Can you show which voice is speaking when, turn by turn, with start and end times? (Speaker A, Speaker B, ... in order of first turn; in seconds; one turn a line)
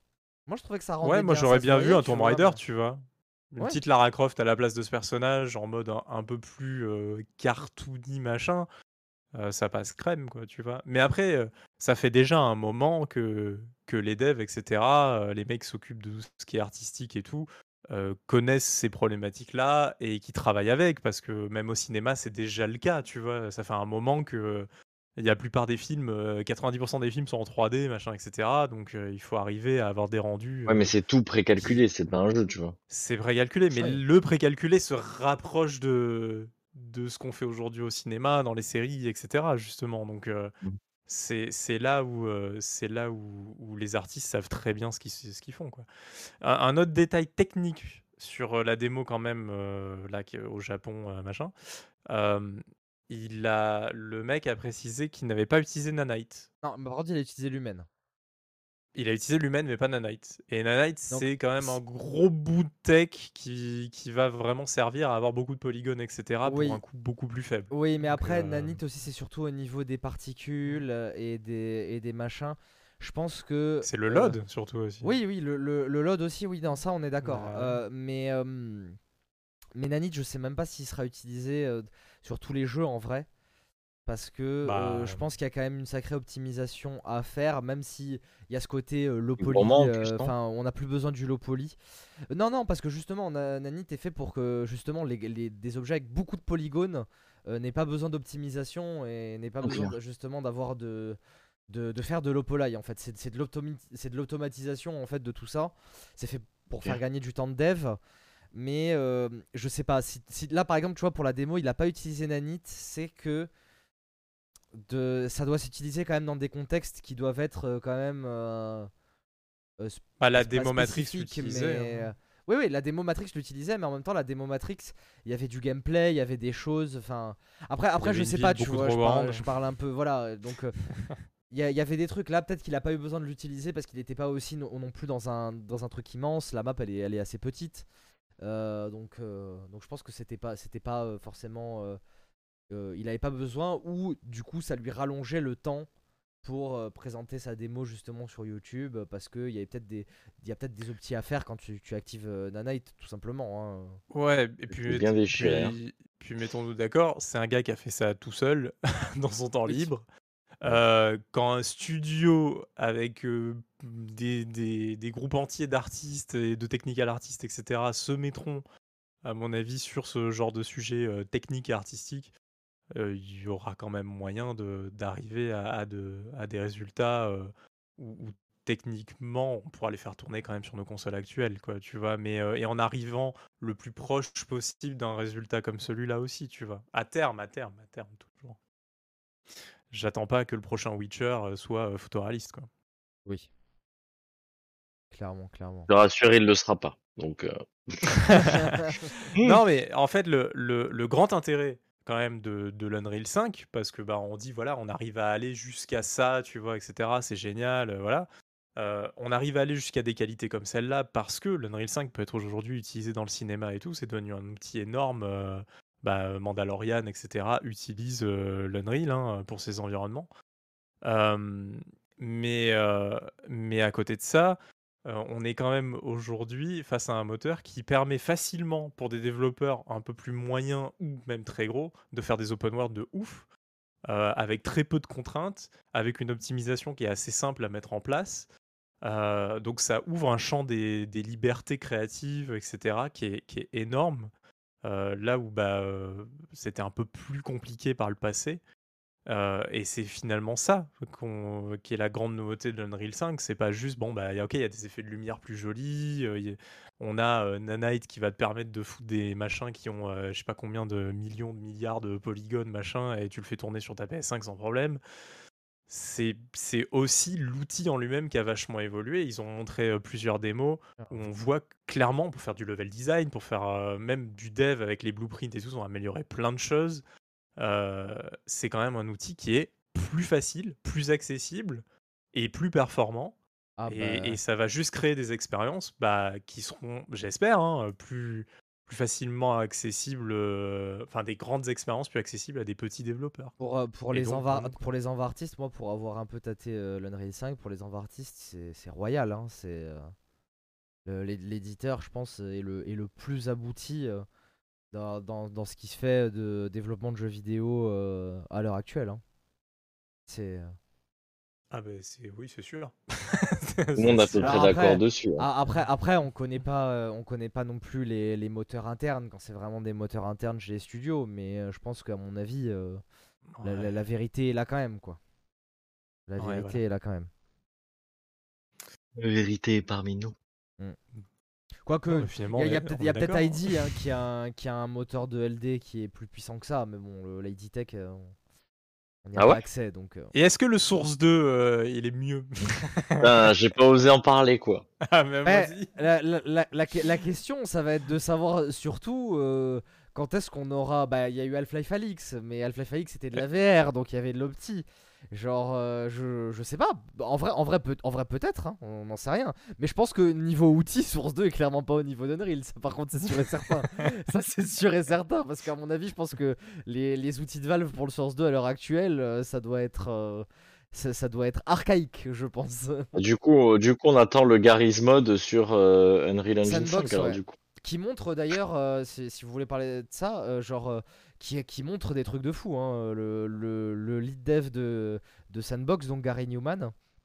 Speaker A: 0.5-2.6
Speaker B: 1.0-8.7
Speaker B: 9.3-30.9
Speaker C: 30.7-32.7
Speaker B: 32.9-40.5
Speaker B: 41.1-45.9
Speaker B: 46.4-51.5
Speaker B: 52.1-56.5
Speaker A: 56.6-57.9
Speaker B: 58.9-68.8
Speaker A: 61.1-61.8
Speaker A: 66.4-66.8
Speaker A: 67.7-74.4
Speaker B: 73.8-75.2
Speaker A: 75.0-79.0
Speaker B: 77.2-77.8
Speaker A: 79.8-83.3
Speaker A: 84.0-91.8
Speaker B: 84.6-85.2
Speaker C: 89.4-90.3
Speaker A: 92.3-101.2
Speaker C: 99.6-99.9
Speaker A: 101.7-108.0
Speaker A: 108.5-113.5
Speaker A: 114.8-118.9
Speaker A: 119.8-130.8
Speaker B: 120.2-122.1
Speaker B: 128.0-129.5
Speaker A: 131.5-137.8
Speaker A: 138.4-142.0
Speaker A: 142.7-145.9
Speaker A: 146.4-154.0
Speaker B: 154.1-160.0
Speaker C: 154.7-155.7
Speaker B: 160.6-168.6
Speaker B: 169.2-172.3
Speaker B: 172.9-188.6
Speaker B: 189.9-192.7
Speaker A: 195.1-195.9
Speaker C: 195.9-198.2
Speaker B: 198.1-198.8
Speaker A: 198.3-199.1
Speaker B: 199.3-220.3
Speaker B: 221.0-233.5
Speaker B: 234.1-238.5
Speaker B: 239.0-244.3
Speaker B: 244.8-248.6
Speaker B: 249.3-265.0
Speaker B: 265.9-277.0
Speaker A: 271.0-271.2
Speaker B: 277.6-293.5
Speaker A: 283.8-284.4
Speaker A: 293.6-300.1
Speaker B: 294.1-294.8
Speaker A: 301.1-304.2
Speaker A: 304.9-309.2
Speaker A: 310.3-310.7
Speaker B: 311.7-314.6
Speaker C: 314.0-315.4
Speaker A: 314.4-323.0
Speaker B: 323.5-323.9
Speaker A: 323.6-325.2
Speaker A: 326.3-327.3
Speaker B: 326.4-326.8
Speaker C: 329.1-330.3
Speaker A: 331.8-338.3
Speaker B: 332.1-334.0
Speaker A: 339.2-340.3
Speaker C: 339.4-339.6
Speaker B: 340.3-343.5
Speaker C: 343.2-344.8
Speaker B: 345.0-345.9
Speaker A: 345.4-373.1
Speaker C: 373.1-377.6
Speaker A: 376.6-386.9